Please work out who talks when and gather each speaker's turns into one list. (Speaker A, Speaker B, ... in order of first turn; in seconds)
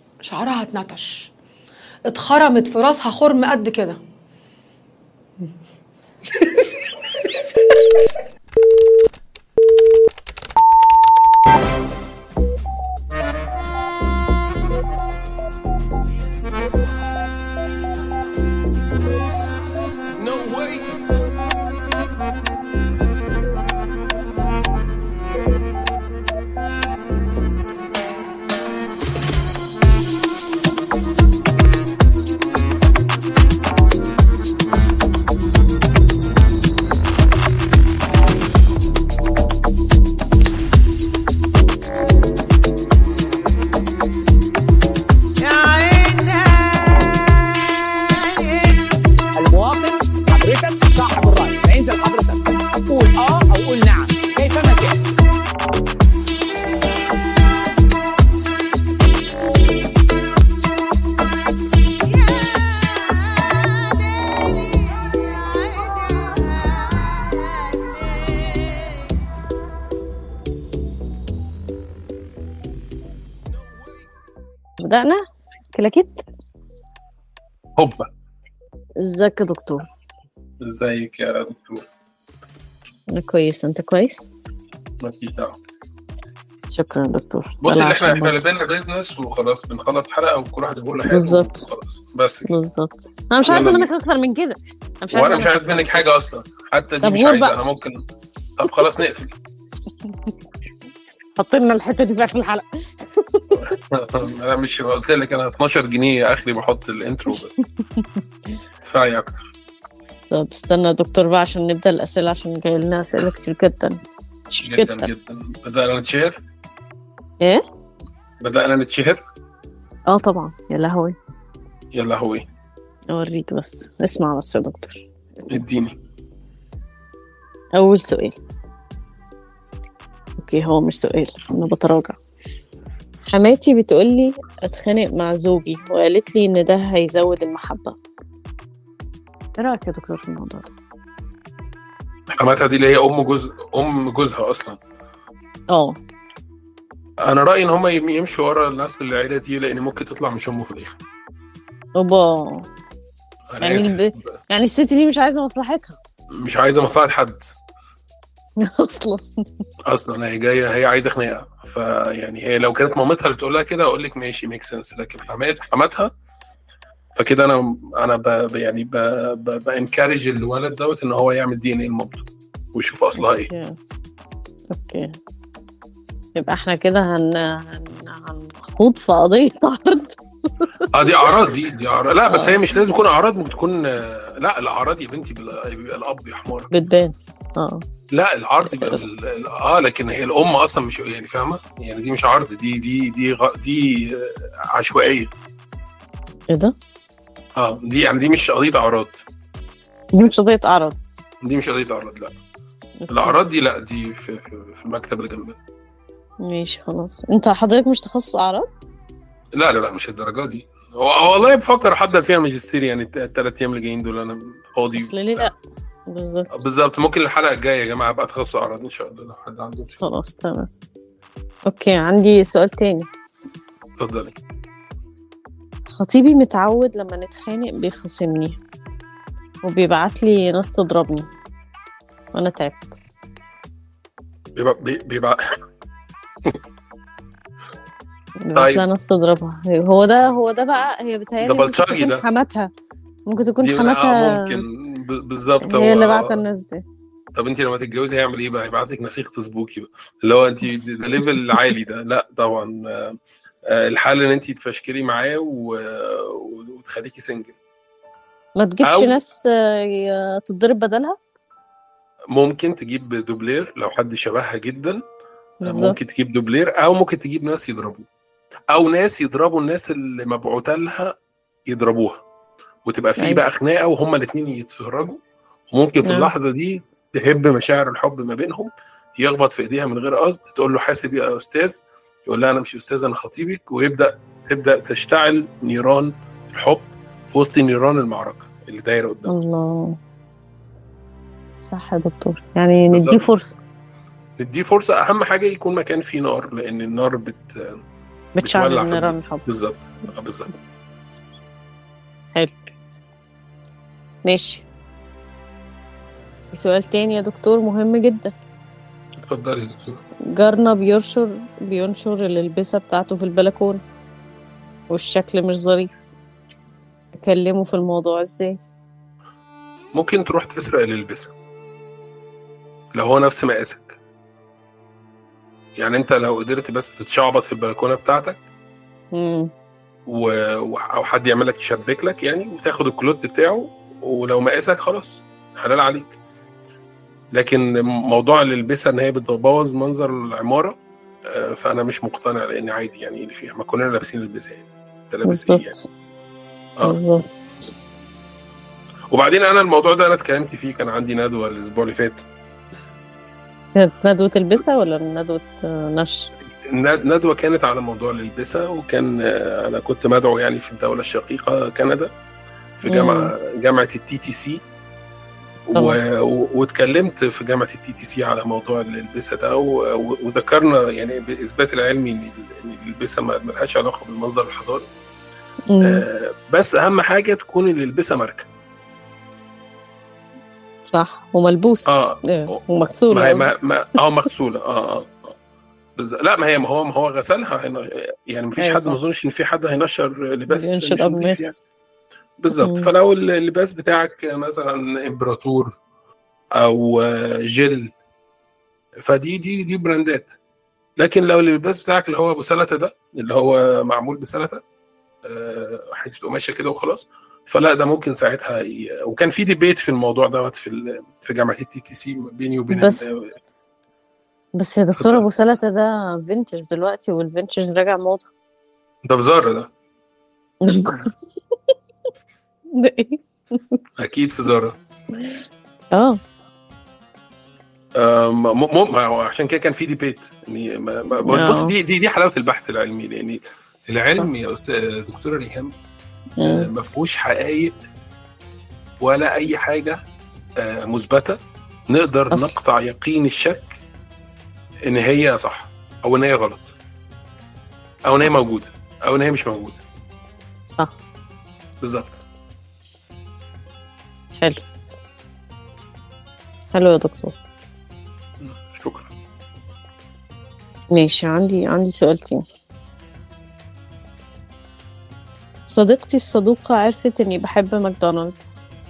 Speaker A: 0.2-1.3, 2.1-4.0
Speaker B: 45.4-48.7, 62.2-63.8, 74.8-76.1, 79.0-79.8, 83.1-84.3, 86.7-88.4, 91.1-91.7, 92.5-96.0, 97.0-97.5, 101.4-103.7, 110.3-114.0, 114.5-115.1, 120.1-121.1, 123.1-125.6, 127.8-128.3, 130.4-132.2, 133.3-137.9, 139.6-140.7, 145.7-146.0, 152.0-152.7, 153.6-156.0, 158.6-159.3, 173.2-173.8, 174.7-175.1, 176.3-181.0, 182.3-182.6, 186.7-187.8, 188.7-189.0, 200.2-201.0, 203.0-203.4, 206.4-208.7, 214.9-215.5, 216.1-216.5, 220.0-220.7, 221.7-223.1, 225.9-228.6, 229.6-231.3, 232.3-232.9, 238.4-242.7, 243.3-244.6, 245.6-246.8, 258.6-261.2, 265.6-266.0, 273.2-273.4, 276.0-276.3, 289.3-290.0, 291.6-293.6, 298.4-299.4, 304.2-304.6, 306.5-308.3, 310.3-313.8, 314.9-315.9, 317.1-318.6, 329.1-329.5, 345.2-345.8, 346.8-347.2, 353.8-356.3, 362.9-363.3, 365.7-366.0, 375.7-376.0, 380.9-383.5, 388.6-389.0, 390.5-391.5, 392.5-392.9, 412.7-413.1, 414.6-418.3, 420.6-421.1, 422.7-423.8, 425.9-426.2, 431.2-431.7, 436.4-436.7, 450.7-450.9, 454.4-454.6, 456.7-457.4, 460.9-462.4, 465.7-468.6
Speaker C: 49.4-55.0
Speaker D: 77.8-78.1, 80.6-81.9, 85.0-85.6, 87.6-92.5, 93.4-93.9, 95.1-98.0, 98.6-99.3, 103.5-107.6, 108.8-109.5, 114.6-116.4, 118.4-119.2, 121.9-122.5, 125.5-126.0, 142.3-144.8, 147.2-151.0, 153.5-154.2, 156.4-157.4, 159.9-166.1, 167.1-173.5, 180.9-186.7, 188.1-195.3, 197.6-199.2, 201.4-202.3, 203.1-205.6, 209.6-215.5, 216.5-220.0, 224.0-224.3, 234.6-235.4, 238.5-238.9, 241.4-242.2, 243.6-246.4, 247.3-257.6, 258.8-259.2, 262.3-265.0, 265.6-268.1, 268.7-271.1, 271.7-272.2, 272.8-275.2, 275.7-289.3, 292.9-293.2, 294.4-297.8, 298.4-300.5, 309.2-310.0, 319.9-321.3, 322.9-324.0, 325.8-328.4, 330.1-336.1, 337.3-340.8, 341.3-345.8, 349.1-352.2, 356.6-362.1, 362.8-364.6, 365.7-374.9, 375.8-378.5, 381.9-385.3, 386.0-391.6, 392.4-395.7, 396.6-397.9, 399.0-400.4, 401.0-404.6, 405.2-413.3, 414.9-415.2, 419.0-419.7, 424.0-424.8, 427.9-435.7, 436.4-437.7, 439.0-440.0, 440.6-441.4, 441.9-443.7, 444.8-446.7, 448.1-449.8, 451.8-452.2, 458.4-459.1